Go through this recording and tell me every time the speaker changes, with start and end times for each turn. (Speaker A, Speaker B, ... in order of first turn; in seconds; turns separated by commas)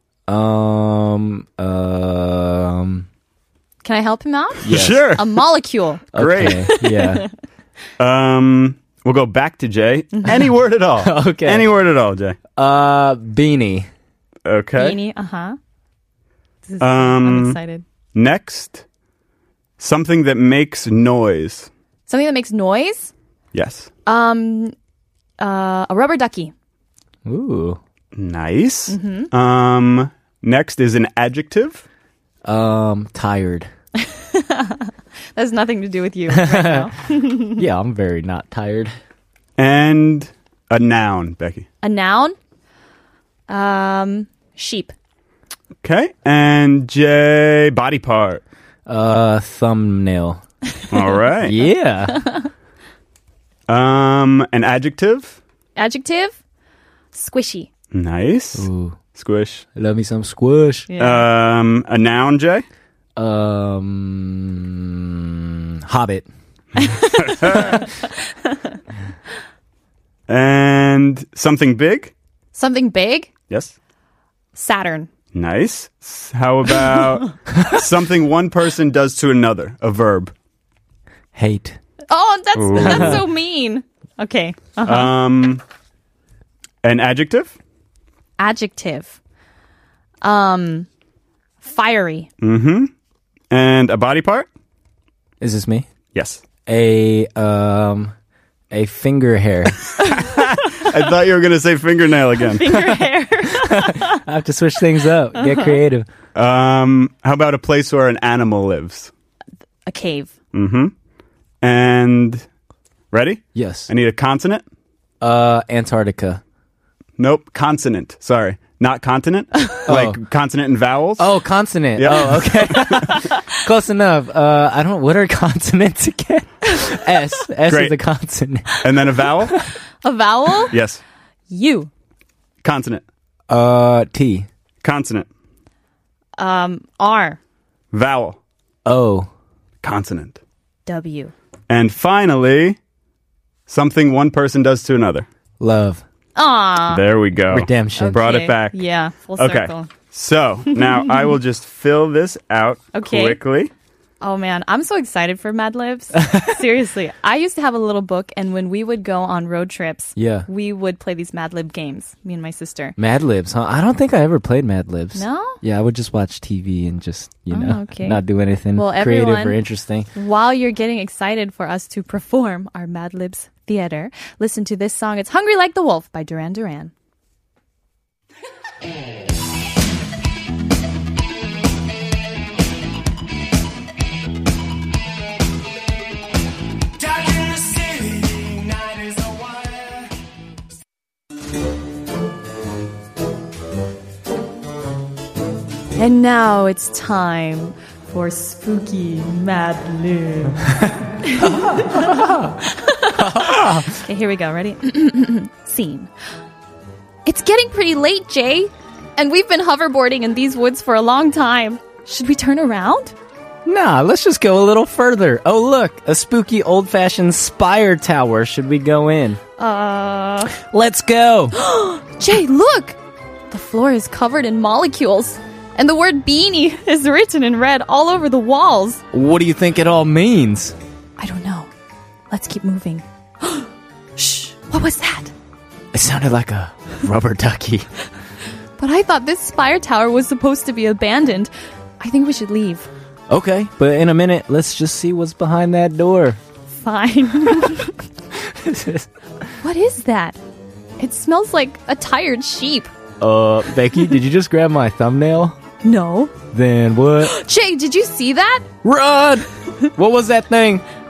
Speaker A: 0.3-3.0, Speaker B: 3.8-7.3, Speaker C: 4.6-5.4, Speaker A: 4.6-5.0, Speaker A: 6.1-7.2, Speaker C: 6.1-6.6, Speaker C: 8.0-12.4, Speaker A: 11.0-11.7, Speaker A: 12.6-13.9, Speaker C: 14.4-15.0, Speaker B: 14.8-15.6, Speaker B: 16.6-17.8, Speaker C: 16.8-17.6, Speaker C: 18.1-18.8, Speaker C: 19.8-21.7, Speaker B: 22.1-23.1, Speaker C: 23.5-23.9, Speaker B: 24.1-24.7, Speaker B: 25.4-26.5, Speaker A: 27.2-27.8, Speaker C: 28.1-31.8, Speaker B: 28.9-29.3, Speaker A: 32.4-33.7, Speaker B: 34.0-37.6, Speaker A: 36.3-36.9, Speaker A: 37.5-39.0, Speaker C: 39.6-41.7, Speaker B: 41.8-42.4, Speaker B: 43.5-44.9, Speaker C: 45.8-48.4, Speaker A: 48.9-50.4, Speaker C: 50.9-51.6, Speaker A: 51.4-52.2, Speaker B: 52.1-52.5, Speaker C: 53.7-55.4, Speaker B: 55.8-56.4, Speaker B: 57.1-57.7, Speaker C: 57.9-59.6, Speaker A: 58.5-59.0, Speaker A: 59.7-60.9, Speaker B: 60.9-61.3, Speaker C: 61.0-62.6, Speaker A: 63.2-66.3, Speaker B: 66.8-68.7, Speaker C: 67.0-67.8, Speaker A: 67.5-67.8, Speaker C: 70.3-72.1, Speaker B: 72.5-73.3, Speaker C: 73.5-73.7, Speaker B: 74.5-75.1, Speaker C: 75.3-80.3, Speaker A: 81.3-81.8, Speaker B: 82.1-85.1, Speaker C: 82.5-83.2, Speaker A: 82.8-83.2, Speaker C: 84.8-85.6, Speaker C: 86.8-87.5, Speaker B: 88.4-89.2, Speaker B: 90.2-90.9, Speaker B: 91.6-92.3, Speaker C: 92.4-92.9, Speaker C: 93.5-94.5, Speaker A: 95.4-95.9, Speaker C: 96.1-96.4, Speaker A: 96.7-98.1, Speaker A: 98.7-99.8, Speaker B: 100.0-100.8, Speaker C: 100.0-102.8, Speaker B: 102.5-104.2, Speaker A: 103.5-106.1, Speaker B: 105.3-105.8, Speaker C: 106.3-109.1, Speaker B: 109.8-110.3, Speaker C: 110.5-110.9, Speaker C: 111.6-112.4, Speaker C: 113.1-114.6, Speaker A: 113.5-113.9, Speaker A: 115.2-116.4, Speaker C: 117.2-121.3, Speaker A: 119.9-120.2, Speaker A: 121.2-128.8, Speaker C: 121.9-123.1, Speaker C: 127.7-128.0, Speaker C: 128.8-129.6, Speaker B: 130.0-130.7, Speaker C: 130.7-131.0, Speaker B: 131.5-131.9, Speaker C: 132.6-133.0, Speaker A: 133.5-134.5, Speaker C: 134.8-135.3, Speaker B: 136.4-137.4, Speaker C: 137.9-138.4, Speaker A: 138.8-139.3, Speaker C: 139.8-140.4, Speaker B: 140.8-141.3, Speaker C: 141.7-142.8, Speaker C: 143.7-145.3, Speaker A: 145.6-146.0, Speaker B: 146.3-147.1, Speaker C: 146.9-148.8, Speaker A: 147.5-148.2, Speaker B: 147.9-149.9, Speaker C: 149.4-153.7, Speaker B: 150.7-151.3, Speaker B: 152.9-153.4, Speaker B: 154.2-162.9, Speaker A: 160.2-160.5, Speaker A: 163.0-170.1, Speaker B: 165.1-165.6, Speaker B: 167.5-168.2, Speaker B: 168.7-169.6, Speaker B: 170.1-176.9, Speaker B: 196.0-200.7, Speaker B: 201.2-206.1, Speaker A: 201.4-202.6, Speaker A: 203.1-204.0, Speaker B: 207.2-213.1, Speaker A: 213.6-219.4, Speaker B: 219.6-220.6, Speaker A: 220.5-221.5, Speaker B: 221.5-222.9, Speaker B: 223.5-229.0, Speaker A: 229.1-230.7, Speaker B: 231.2-231.7, Speaker B: 232.3-235.3, Speaker A: 235.9-237.9, Speaker B: 238.8-242.9, Speaker A: 243.3-246.4, Speaker B: 246.7-247.9, Speaker A: 248.3-249.1, Speaker B: 249.6-250.4, Speaker B: 251.0-252.9, Speaker A: 253.2-255.6, Speaker B: 255.8-256.3, Speaker A: 256.5-257.3, Speaker B: 257.2-258.6, Speaker A: 258.8-260.8